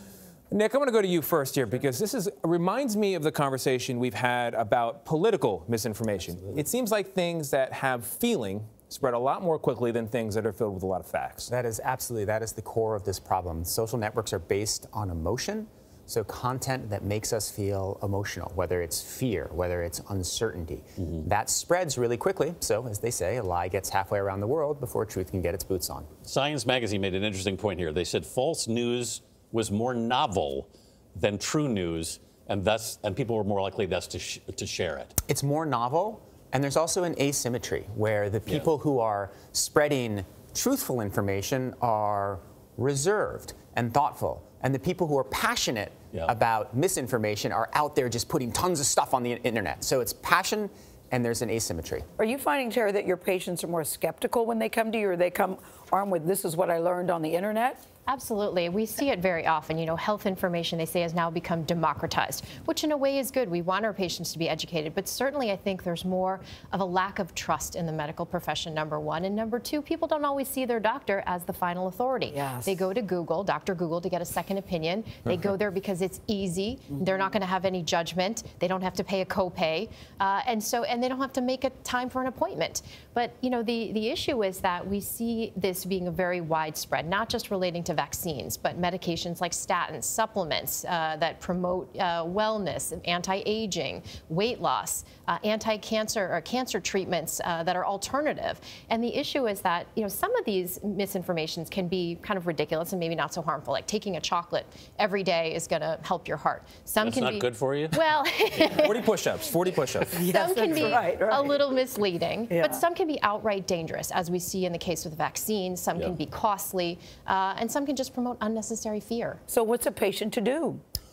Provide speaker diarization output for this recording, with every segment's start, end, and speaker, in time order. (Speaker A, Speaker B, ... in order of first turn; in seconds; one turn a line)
Speaker A: 0.5-11.5
Speaker B: 11.5-26.1
Speaker C: 26.2-35.1
Speaker B: 35.3-52.0
Speaker D: 52.2-57.8
Speaker E: 58.1-109.2
Speaker D: 72.3-72.8
Speaker C: 107.0-108.8
Speaker A: 108.8-110.2
Speaker D: 110.1-111.7
Speaker E: 110.2-119.4
Speaker D: 112.5-112.8
Speaker D: 119.5-120.8